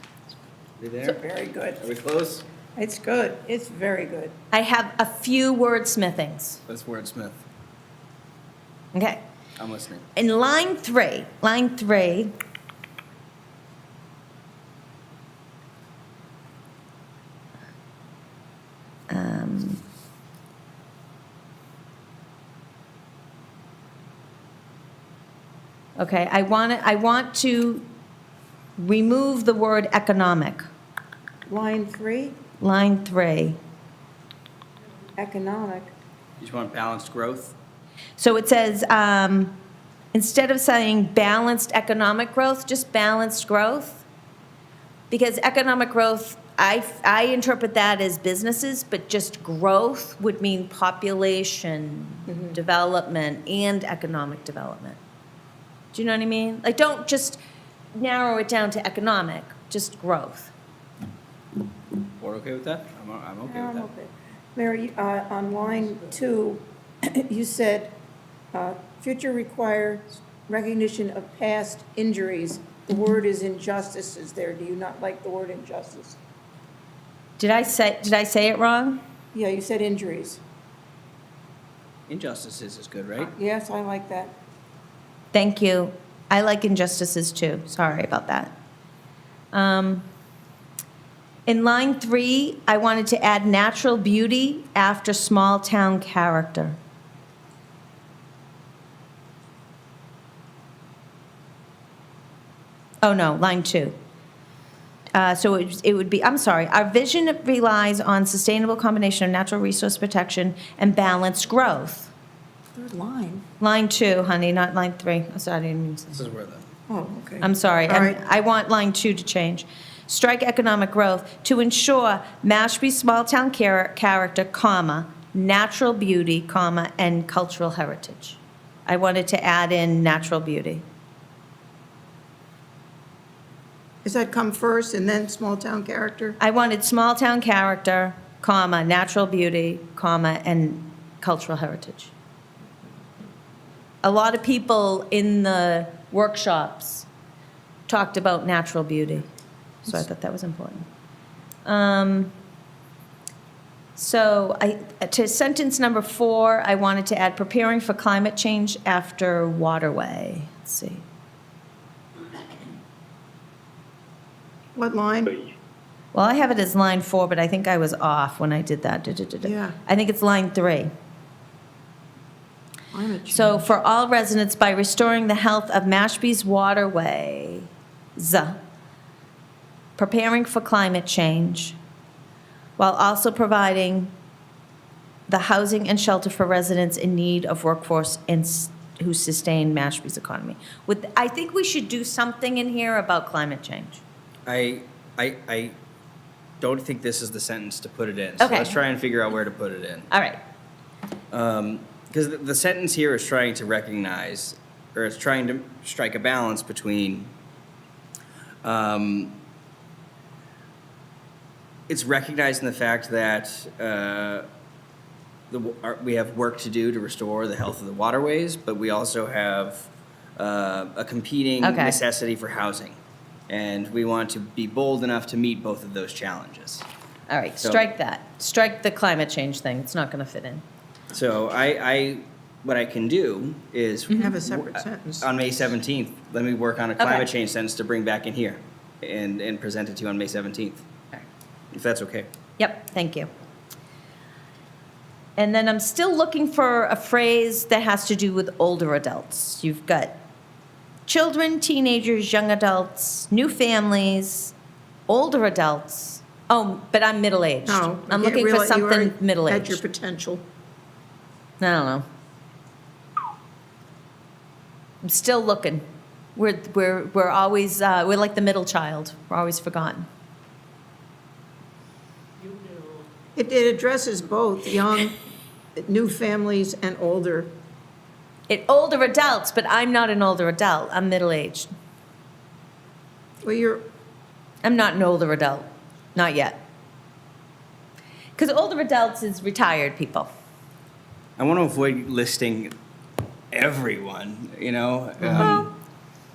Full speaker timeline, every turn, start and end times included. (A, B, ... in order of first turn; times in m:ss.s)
0:00.8-0:01.2 A
0:01.0-0:01.8 B
0:01.8-0:02.4 A
0:02.8-0:04.3 B
0:04.5-0:06.6 C
0:06.7-0:07.4 A
0:08.9-0:09.2 C
0:09.6-0:10.0 A
0:10.2-0:12.3 C
0:19.1-0:19.8 C
0:26.0-0:27.8 C
0:28.8-0:30.6 C
0:31.4-0:32.4 B
0:32.6-0:33.6 C
0:35.2-0:35.9 B
0:36.4-0:37.5 A
0:38.2-0:39.5 C
0:40.1-0:44.0 C
0:45.1-0:55.0 C
0:55.9-0:57.4 C
0:57.9-1:00.5 C
1:02.2-1:03.9 A
1:03.5-1:08.0 B
1:08.5-1:16.2 B
1:17.4-1:19.0 C
1:19.3-1:20.4 B
1:22.1-1:23.3 A
1:23.2-1:24.3 B
1:25.3-1:28.5 C
1:29.5-1:30.0 C
1:31.4-1:36.8 C
1:43.0-1:43.9 C
1:45.1-1:52.1 C
1:52.7-1:53.4 B
1:53.6-1:56.2 C
1:56.1-1:56.6 A
1:56.9-1:58.2 B
1:57.4-2:10.8 C
2:14.0-2:16.4 B
2:16.4-2:22.1 C
2:24.0-2:27.1 C
2:27.9-2:29.3 C
2:29.8-2:30.8 C
2:31.6-2:32.3 C
2:33.9-2:41.0 C
2:44.8-2:45.4 B
2:46.1-2:50.9 C
2:49.4-2:49.8 B
2:52.9-2:53.6 B
2:53.3-2:58.6 C
3:00.0-3:01.8 C
3:02.8-3:04.1 C
3:05.3-3:14.0 C
3:14.5-3:15.7 A
3:16.6-3:20.1 A
3:18.4-3:18.8 C
3:20.1-3:20.4 C
3:21.3-3:27.3 A
3:28.6-3:29.3 A
3:31.9-3:34.4 A
3:35.5-3:43.0 A
3:41.6-3:42.0 C
3:43.5-3:46.8 A
3:47.3-3:50.6 C
3:51.1-4:00.8 A
3:54.1-3:55.3 B
3:57.0-3:57.3 C
4:01.7-4:02.3 A
4:02.6-4:03.3 C
4:05.4-4:10.2 C
4:11.1-4:14.5 C
4:15.1-4:19.8 C
4:17.6-4:20.4 B
4:21.6-4:22.0 C
4:25.0-4:25.8 C
4:26.4-4:30.1 C
4:33.4-4:35.2 B
4:35.8-4:37.5 B
4:38.5-4:41.7 C
4:43.4-4:43.8 B
4:44.6-4:46.6 C
4:48.4-4:50.3 C
4:51.4-4:52.7 A
4:53.5-4:55.7 A
4:55.2-4:55.7 C
4:55.4-4:55.6 B